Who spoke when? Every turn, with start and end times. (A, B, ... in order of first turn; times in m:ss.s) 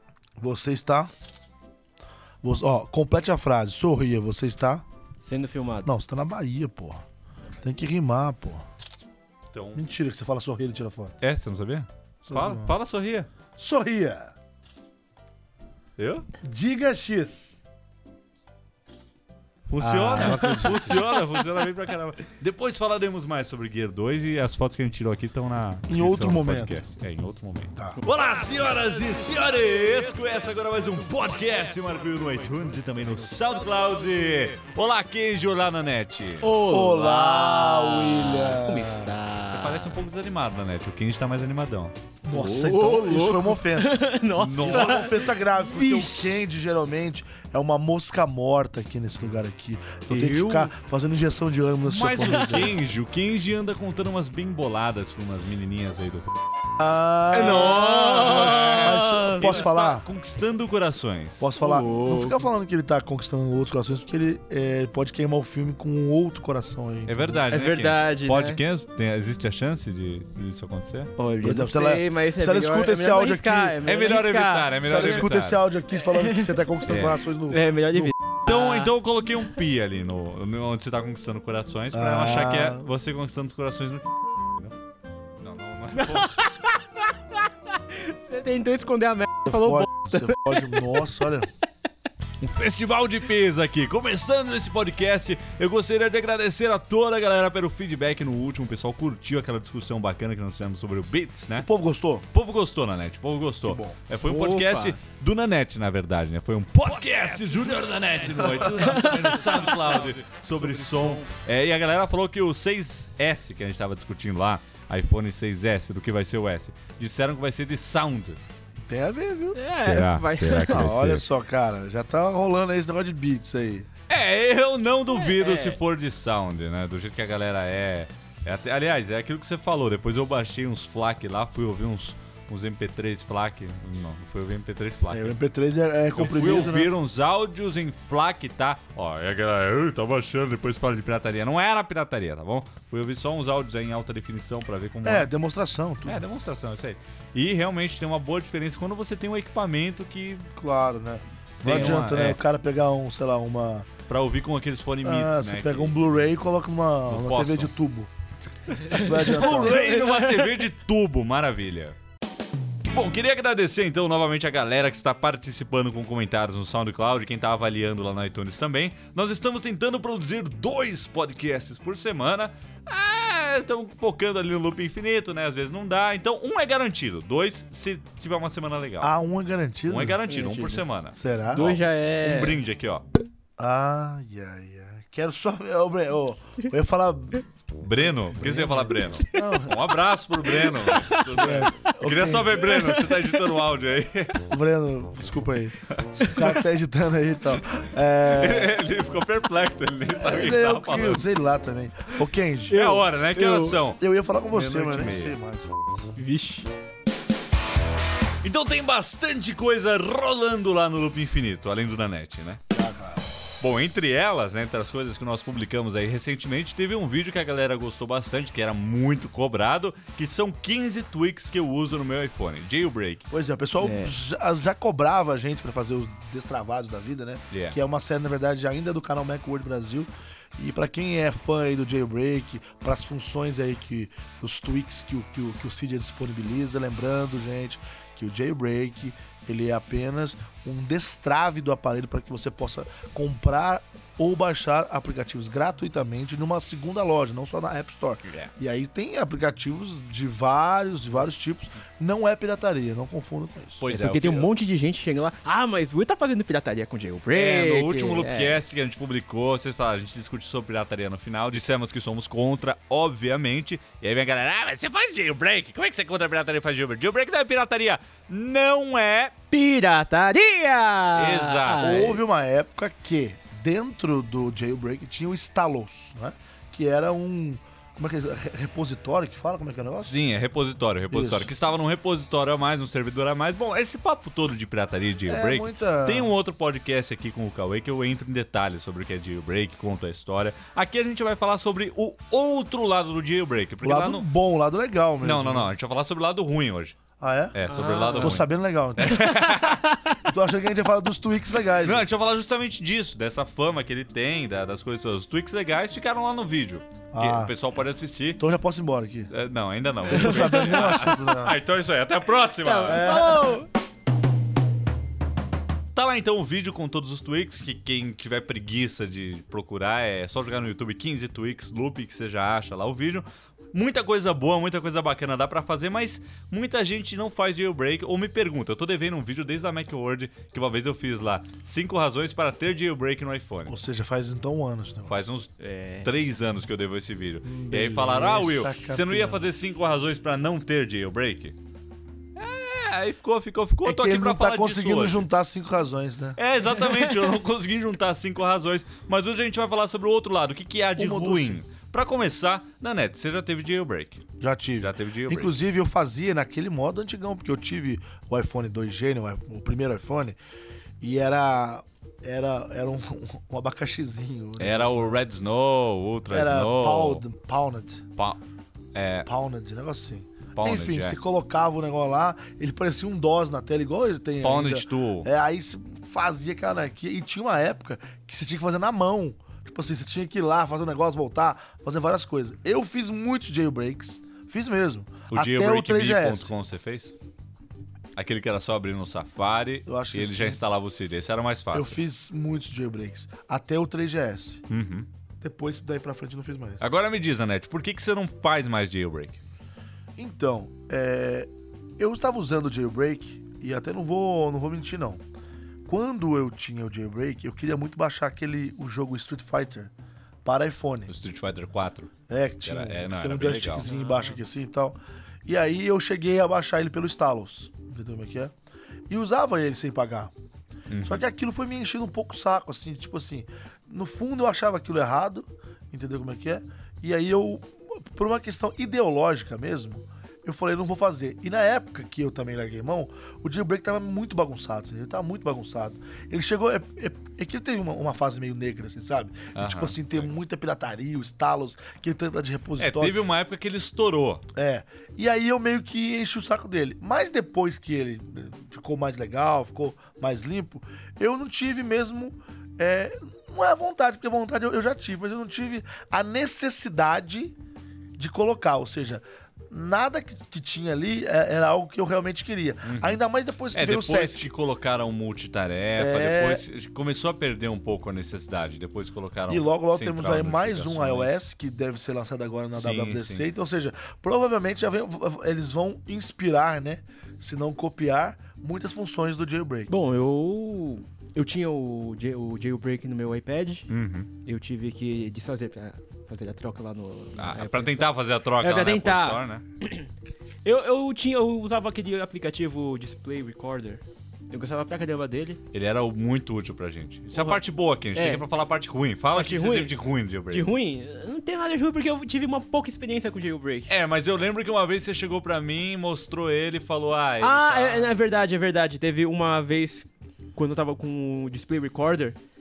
0:00.4-0:01.1 A
0:02.4-0:04.8 A
0:05.2-0:05.9 B
0:05.8-0:07.0 A
0:07.6-0:08.6 A
0:09.5-0:09.8 C
0:09.7-0:11.2 A
0:11.2-0:13.3 C
0:12.2-0:12.8 A
0:13.6-0:14.3 A
0:16.0-0:16.3 C
0:16.4-0:17.6 A
0:19.7-0:36.5 C
0:19.8-0:21.1 A
0:25.9-0:26.8 A
0:36.4-0:40.0 B
0:36.7-0:39.2 A
0:39.4-0:41.9 C
0:42.2-0:52.8 A
0:42.3-0:46.2 B
0:44.4-0:45.3 C
0:50.1-0:50.7 B
0:51.8-0:56.3 C
0:56.8-1:00.1 A
0:57.3-0:59.7 B
0:58.3-1:01.5 C
1:01.4-1:07.4 A
1:01.6-1:02.4 B
1:07.1-1:11.1 C
1:07.5-1:08.6 B
1:11.2-1:15.3 B
1:11.4-1:14.1 A
1:13.8-1:15.6 C
1:14.8-1:18.1 A
1:16.0-1:16.6 B
1:16.9-1:17.2 C
1:17.5-1:18.9 B
1:18.4-1:24.8 C
1:21.9-1:22.9 A
1:25.4-1:26.4 C
1:26.0-1:31.0 B
1:29.4-1:31.5 A
1:32.4-1:41.7 C
1:41.6-1:42.2 A
1:42.3-1:58.4 C
1:43.6-1:44.0 A
1:44.2-1:45.0 B
1:48.4-1:48.9 A
1:48.8-1:49.4 B
1:50.5-1:51.2 A
1:58.8-1:59.6 A
1:59.6-2:00.9 B
1:59.8-2:01.2 C
2:00.7-2:03.9 A
2:04.1-2:15.4 C
2:05.1-2:05.8 B
2:15.1-2:16.9 A
2:16.2-2:25.3 C
2:25.0-2:26.2 A
2:26.1-2:30.5 C
2:30.6-2:33.9 A
2:31.6-2:32.4 C
2:34.1-2:36.0 C
2:35.0-2:38.1 A
2:37.1-2:37.7 C
2:38.8-2:42.0 C
2:38.9-2:40.6 B
2:38.9-2:39.9 A
2:42.9-2:59.1 C
2:59.0-3:00.2 A
2:59.9-3:03.0 C
3:00.3-3:00.9 B
3:01.1-3:01.7 A
3:01.5-3:02.6 B
3:03.6-3:07.5 A
3:07.8-3:14.4 C
3:08.0-3:09.8 A
3:08.5-3:09.6 B
3:10.5-3:11.3 B
3:11.4-3:12.7 A
3:12.6-3:13.4 B
3:14.5-3:15.8 A
3:16.3-3:18.8 A
3:18.2-3:21.3 C
3:20.2-3:22.8 A
3:22.7-3:23.8 B
3:22.7-3:25.4 C
3:24.0-3:25.8 A
3:26.2-3:26.7 B
3:28.4-3:32.6 C
3:32.7-3:33.3 A
3:33.6-3:43.3 C
3:43.3-4:13.8 A
3:43.8-3:44.1 B
3:47.5-3:47.8 C
4:08.2-4:08.5 C
4:13.8-4:14.5 C
4:13.9-4:18.6 B
4:17.3-4:29.3 C
4:29.5-4:32.2 B
4:31.1-4:32.0 C
4:31.8-4:40.2 A
4:40.0-4:54.3 C
4:41.1-4:41.5 A
4:45.3-4:46.3 A
4:53.8-4:55.7 A
4:55.2-4:57.0 C
4:57.2-4:57.6 A
4:57.5-4:59.8 C
4:57.6-4:58.4 B
4:58.2-4:59.3 A
4:59.0-5:00.2 B
5:00.2-5:02.1 A
5:01.7-5:08.4 C
5:07.1-5:07.6 A
5:08.4-5:09.3 A
5:09.3-5:13.1 C
5:10.1-5:11.6 A
5:10.1-5:10.9 B
5:12.6-5:13.7 B
5:12.9-5:13.6 A
5:15.9-5:33.8 C
5:33.7-5:35.2 A
5:35.1-5:41.6 C
5:35.6-5:36.1 B
5:37.4-5:39.5 A
5:42.4-5:45.3 C
5:43.8-5:46.4 A
5:46.4-5:54.2 C
5:51.0-5:51.6 A
5:54.4-6:00.4 A
5:54.8-5:55.5 C
6:01.0-6:05.2 A
6:04.6-6:07.2 C
6:06.3-6:08.0 A
6:08.9-6:09.3 C
6:09.2-6:26.5 A
6:10.6-6:11.2 C
6:14.4-6:15.3 C
6:25.3-6:27.1 C
6:28.2-6:32.0 C
6:29.9-6:30.6 A
6:31.7-6:34.6 A
6:34.7-6:35.1 C
6:35.4-6:36.8 A
6:36.8-6:39.4 C
6:40.2-6:45.2 A
6:45.9-6:49.9 A
6:50.4-6:51.1 A
6:51.1-6:52.1 C
6:52.3-6:58.5 A
6:52.6-6:53.9 C
6:53.8-6:54.4 B
6:59.1-7:00.3 A
7:00.9-7:01.2 C
7:01.0-7:23.2 A
7:19.5-7:20.3 C
7:22.8-7:24.4 C
7:24.6-7:37.6 A
7:38.2-7:44.5 A
7:42.9-7:43.2 C
7:43.7-7:51.4 C
7:46.0-7:46.6 A
7:49.5-7:59.9 A
7:52.7-7:53.5 C
7:59.9-8:03.9 B
8:03.9-8:04.3 C
8:04.4-8:10.1 B
8:07.4-8:09.6 C
8:10.6-8:15.6 B
8:15.7-8:20.7 C
8:17.3-8:18.5 B
8:19.3-8:20.0 B
8:20.5-8:23.9 B
8:23.9-8:28.2 C
8:27.4-8:32.4 B